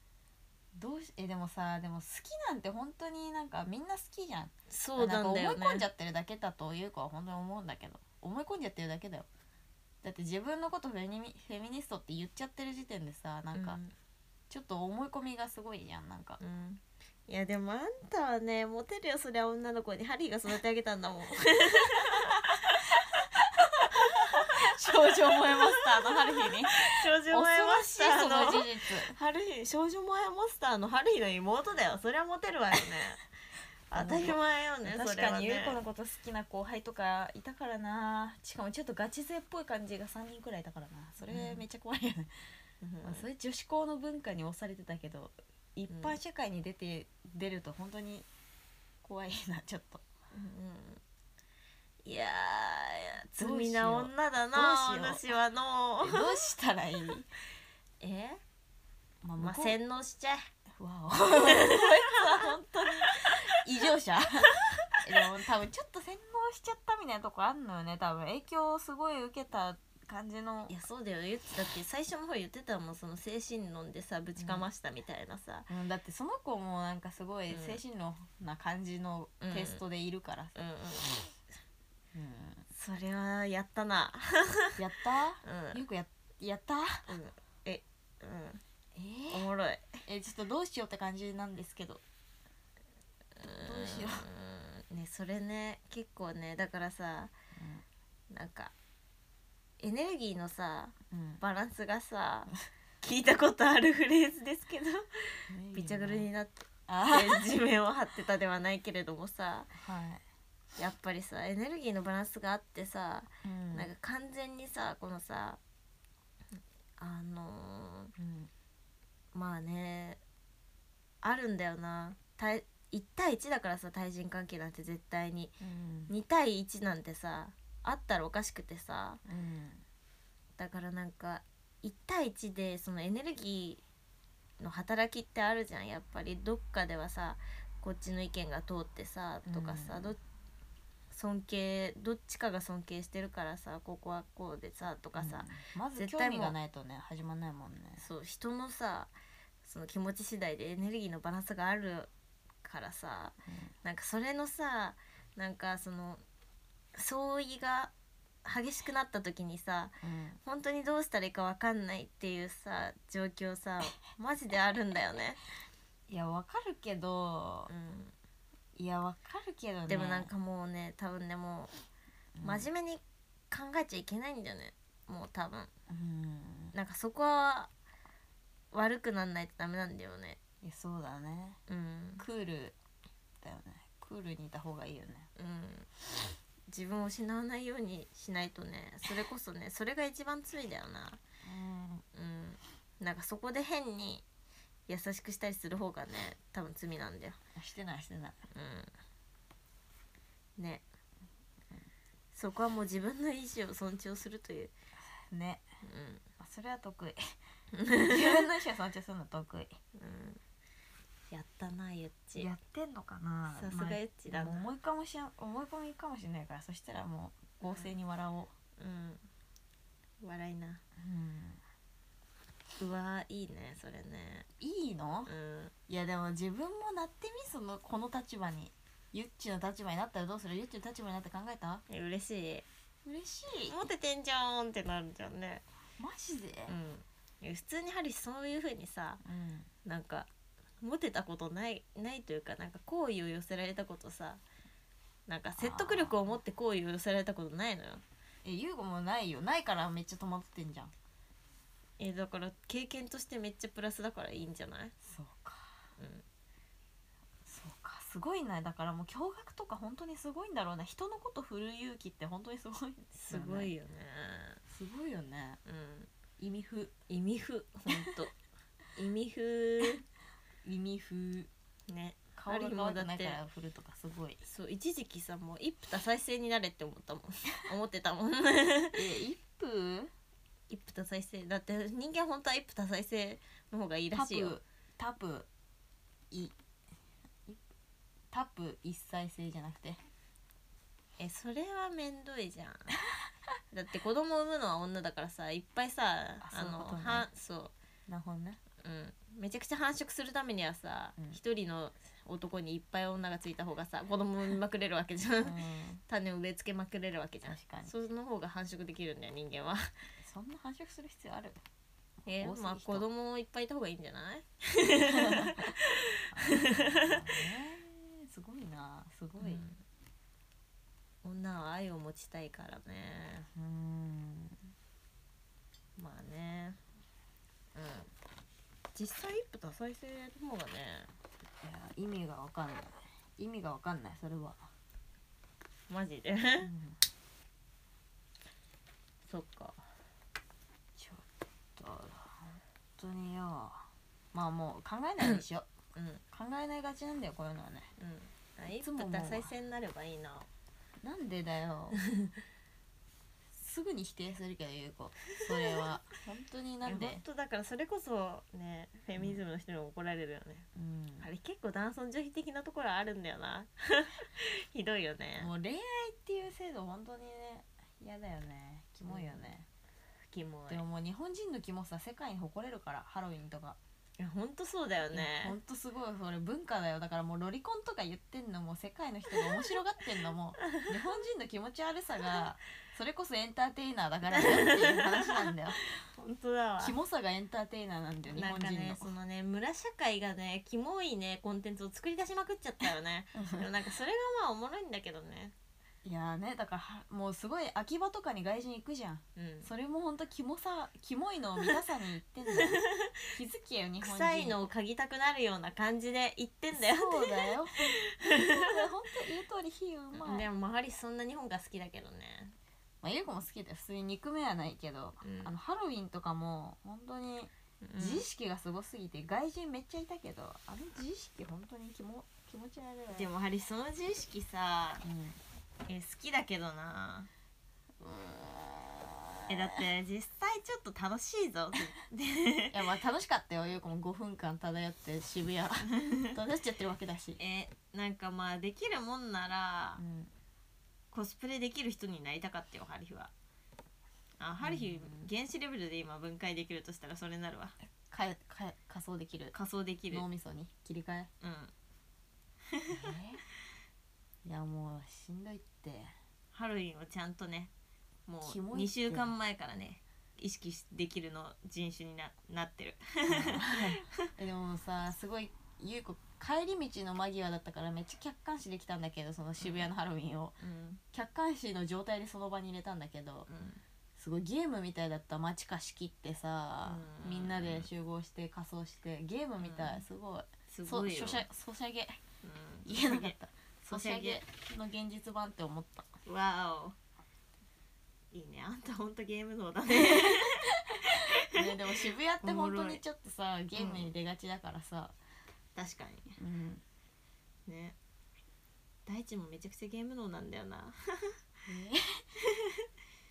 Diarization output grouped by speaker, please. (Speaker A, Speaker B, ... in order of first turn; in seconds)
Speaker A: 0.7-9.3, 10.0-13.8, 14.5-16.4, 23.3-29.1, 33.9-42.4, 43.0-48.3, 49.0-50.0, 53.4-55.3, 56.0-57.3, 59.2-59.8, 60.8-70.8, 74.4-74.7, 75.7-80.5, 82.1-82.6, 84.8-87.1, 88.9-89.5, 90.0-92.0, 93.4-94.3, 97.5-97.8, 101.1-101.4, 105.5-106.3, 106.9-107.5, 109.8-110.2, 113.4-113.9, 118.2-118.5, 125.6-126.1, 129.2-129.8, 139.4-140.1, 145.2-148.0, 153.5-153.7, 160.0-160.4, 166.1-167.7, 168.8-170.3, 172.4-172.7, 175.9-176.7, 180.6-181.6, 182.2-182.7, 183.4-185.3, 191.4-192.0, 197.6-198.4, 205.3-205.6, 206.4-207.2, 208.0-209.8, 212.3-218.5, 221.0-221.6, 224.6-225.3, 225.9-231.8, 233.0-233.8, 236.0-236.7, 239.2-239.7, 245.5-246.3, 248.4-250.9, 255.0-255.9, 257.4-263.7, 264.7-265.6, 266.4-266.9, 267.9-268.1, 270.6-271.5, 272.3-274.4, 278.9-280.1, 284.1-285.5, 288.3-290.0, 296.4-297.3, 298.1-298.6, 305.4-306.0, 307.4-307.9, 310.2-311.6, 312.4-313.1, 315.0-315.7, 316.3-319.6, 323.5-324.7, 331.6-334.6, 336.6-337.0, 341.0-341.2, 341.8-345.7, 346.3-347.9, 348.8-349.5, 351.0-352.0, 353.5-357.2, 360.7-361.3, 365.4-369.6, 370.7-373.8, 375.1-385.8, 386.8-389.1, 393.3-393.7, 396.0-404.6, 406.7-410.5, 413.0-423.3, 425.0-425.4, 428.0-429.8, 432.7-437.4, 440.0-440.3, 444.6-445.3, 448.1-449.6, 450.1-451.3, 452.9-453.4, 454.4-456.1, 458.4-459.3, 463.3-470.6, 471.1-473.5, 474.2-482.2, 482.9-486.1, 489.9-495.1, 496.4-496.8, 501.6-502.3
Speaker B: 4.7-5.9, 13.5-13.9, 16.4-33.2, 33.9-35.8, 41.3-41.6, 42.8-43.2, 45.9-46.2, 50.3-51.0, 52.0-56.3, 58.0-58.4, 59.4-60.5, 61.5-62.2, 63.0-63.4, 64.7-65.0, 70.7-75.7, 77.5-77.8, 79.4-79.8, 80.5-81.3, 82.7-84.8, 85.4-85.8, 87.1-88.6, 89.3-90.0, 93.4-97.3, 98.3-98.7, 99.8-102.5, 103.0-109.7, 110.8-115.6, 117.0-118.1, 119.3-120.2, 121.2-129.2, 130.6-133.8, 134.6-140.2, 141.1-146.6, 148.0-149.1, 149.6-152.1, 152.6-156.2, 156.9-157.9, 158.4-165.4, 167.7-168.1, 169.9-171.7, 172.4-175.7, 176.7-177.7, 178.7-180.4, 181.7-182.2, 185.3-185.9, 186.7-191.2, 192.1-194.2, 194.9-197.4, 198.5-198.9, 200.6-200.8, 202.3-204.7, 205.8-206.2, 207.7-208.4, 209.9-210.4, 211.3-212.5, 213.5-214.6, 217.7-217.9, 218.8-219.2, 220.2-220.8, 222.8-224.5, 225.3-225.7, 231.9-232.7, 233.7-235.6, 236.7-239.2, 239.8-240.3, 240.8-244.4, 245.3-248.0, 252.0-254.9, 256.0-256.2, 263.1-264.6, 265.6-266.1, 267.1-268.3, 268.9-270.0, 271.9-273.4, 274.4-279.0, 280.7-284.5, 291.2-292.9, 293.7-297.7, 298.8-305.6, 306.1-309.9, 312.2-317.5, 319.4-319.8, 321.2-323.5, 326.0-326.8, 327.7-328.1, 328.9-331.1, 335.9-336.7, 339.2-339.8, 345.2-346.2, 348.0-350.5, 352.0-352.4, 355.4-355.9, 356.8-360.7, 361.2-365.5, 369.1-369.5, 370.3-370.8, 374.2-375.6, 384.3-387.0, 388.3-395.5, 399.4-399.7, 402.5-403.3, 404.0-408.9, 410.1-412.5, 415.2-415.5, 417.8-418.2, 423.1-425.0, 425.9-427.3, 429.5-432.8, 437.4-440.0, 441.1-443.3, 444.4-447.7, 449.5-450.2, 451.4-451.7, 452.7-453.0, 456.5-457.7, 458.3-464.3, 469.6-469.9, 470.6-471.0, 473.5-473.8, 476.8-477.9, 479.6-480.0, 480.7-481.4, 482.4-483.3, 483.9-484.4, 486.2-486.9, 488.3-493.0, 493.7-494.1, 495.7-496.4, 497.7-497.9, 499.1-501.4, 502.4-502.9